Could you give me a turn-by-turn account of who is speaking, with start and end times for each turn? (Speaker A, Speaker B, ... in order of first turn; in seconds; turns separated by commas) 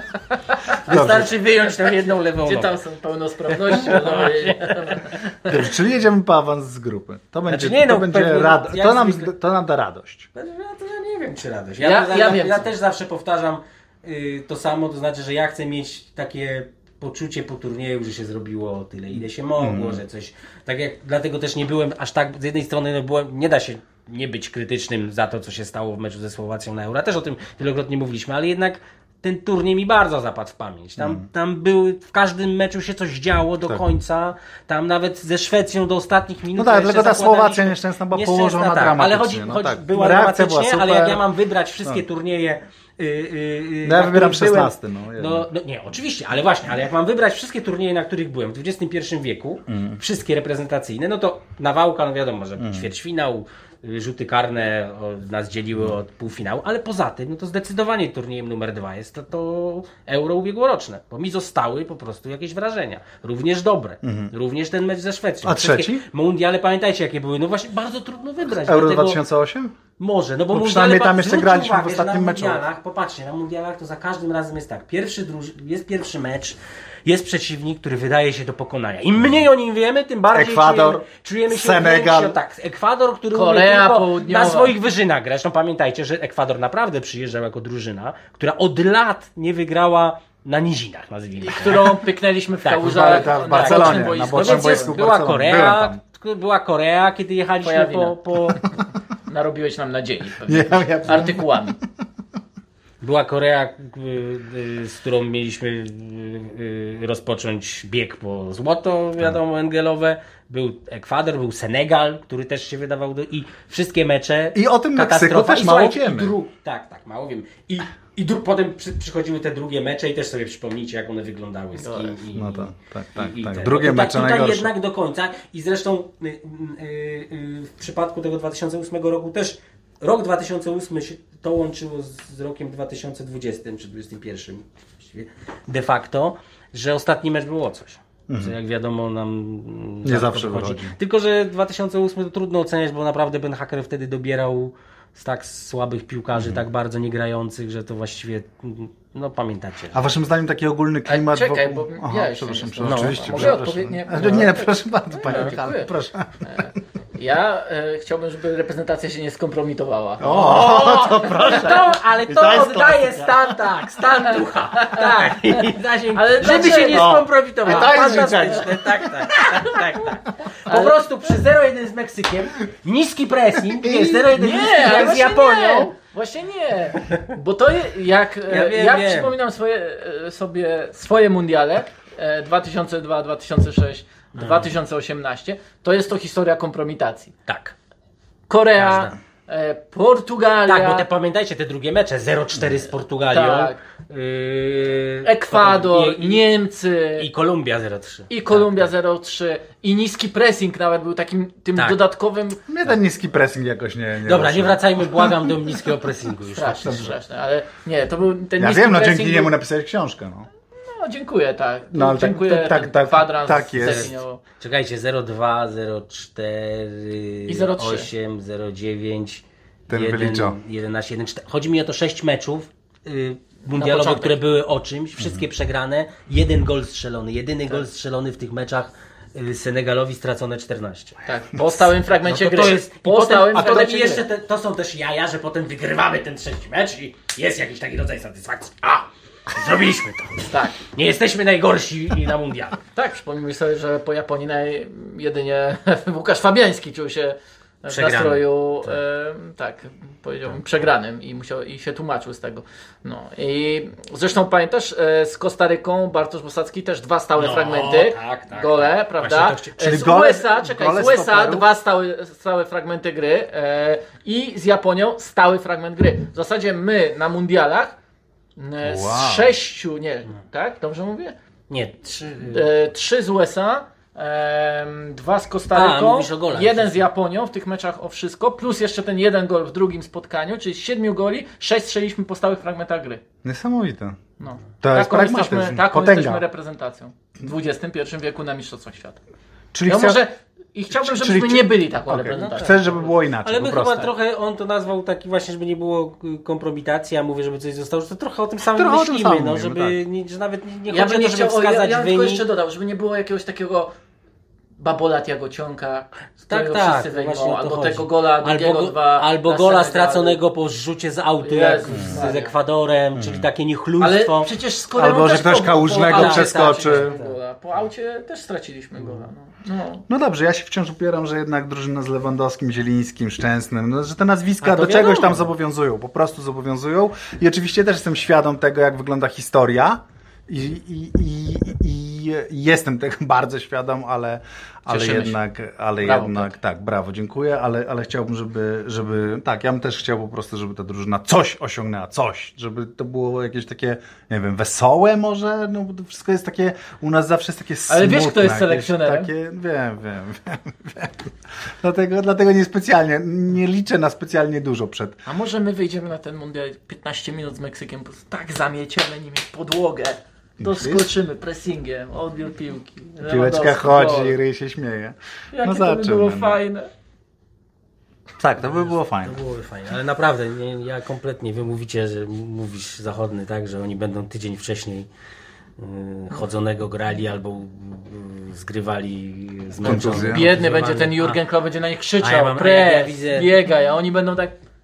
Speaker A: 0.8-2.7, Speaker B: 0.9-1.3, Speaker C: 2.4-5.7, Speaker A: 3.7-5.1, Speaker B: 5.5-10.3, Speaker A: 7.5-9.3, Speaker A: 10.3-69.2, Speaker C: 11.8-12.7, Speaker B: 19.6-20.0, Speaker B: 31.0-31.2, Speaker B: 36.5-41.2, Speaker B: 43.8-45.5, Speaker B: 49.7-50.0, Speaker B: 52.6-52.9, Speaker B: 64.0-64.3, Speaker B: 65.4-66.0, Speaker B: 68.6-69.7, Speaker A: 70.0-92.0, Speaker B: 70.5-72.6, Speaker B: 80.3-82.4, Speaker C: 83.3-84.8, Speaker C: 91.4-95.0, Speaker A: 92.6-98.6, Speaker B: 92.8-96.0, Speaker C: 97.6-98.6, Speaker C: 99.3-101.8, Speaker B: 100.4-101.7, Speaker A: 103.0-150.0, Speaker B: 114.5-116.3, Speaker C: 121.8-122.2, Speaker B: 122.3-124.7, Speaker B: 138.3-138.5, Speaker B: 140.0-140.9, Speaker B: 149.9-156.5, Speaker C: 151.1-155.9, Speaker A: 152.8-153.6, Speaker A: 154.2-154.5, Speaker C: 156.4-161.8, Speaker B: 160.2-163.6, Speaker A: 160.2-175.9, Speaker C: 164.7-171.4, Speaker B: 166.4-169.1, Speaker B: 173.7-174.3, Speaker C: 174.3-187.3, Speaker A: 178.5-179.3, Speaker A: 184.3-184.7, Speaker A: 187.5-187.7, Speaker C: 188.5-191.0, Speaker A: 188.8-189.2, Speaker A: 190.7-196.4, Speaker C: 193.3-193.8, Speaker C: 195.2-197.3, Speaker A: 197.2-198.9, Speaker C: 198.3-202.9, Speaker A: 201.7-202.0, Speaker B: 202.7-205.3, Speaker A: 204.2-207.1, Speaker C: 206.6-209.5, Speaker B: 206.8-207.2, Speaker B: 208.6-210.5, Speaker C: 210.8-214.4, Speaker B: 211.9-214.1, Speaker A: 213.8-231.2, Speaker C: 217.5-218.1, Speaker B: 219.9-220.6, Speaker C: 223.7-224.4, Speaker C: 231.2-234.2, Speaker A: 232.2-242.8, Speaker B: 233.6-233.8, Speaker C: 240.5-240.8, Speaker C: 242.9-267.9, Speaker A: 247.9-249.0, Speaker A: 257.4-260.0, Speaker B: 259.8-261.6, Speaker C: 268.6-271.3, Speaker B: 268.8-269.5, Speaker A: 271.7-272.7, Speaker C: 272.4-283.2, Speaker A: 275.7-277.0, Speaker B: 283.4-284.2, Speaker C: 284.4-289.2, Speaker B: 284.8-286.4, Speaker B: 289.7-290.2, Speaker C: 289.9-293.0, Speaker B: 290.9-294.1, Speaker A: 292.2-302.4, Speaker B: 298.7-299.9, Speaker C: 300.9-303.9, Speaker C: 304.8-310.4, Speaker A: 306.5-314.5, Speaker C: 311.4-312.5, Speaker B: 311.9-312.3, Speaker B: 313.1-313.4, Speaker C: 314.0-320.0, Speaker B: 314.9-317.1, Speaker A: 316.1-317.4, Speaker B: 320.1-355.2, Speaker A: 324.6-325.5, Speaker C: 334.9-335.4, Speaker C: 336.0-336.5, Speaker C: 347.9-349.3, Speaker C: 355.2-364.3, Speaker B: 360.6-361.1, Speaker B: 363.3-366.6, Speaker C: 365.5-366.9, Speaker B: 368.4-369.4, Speaker A: 368.6-375.1, Speaker A: 375.8-381.4, Speaker B: 379.8-380.5, Speaker C: 379.8-384.5, Speaker A: 382.2-383.5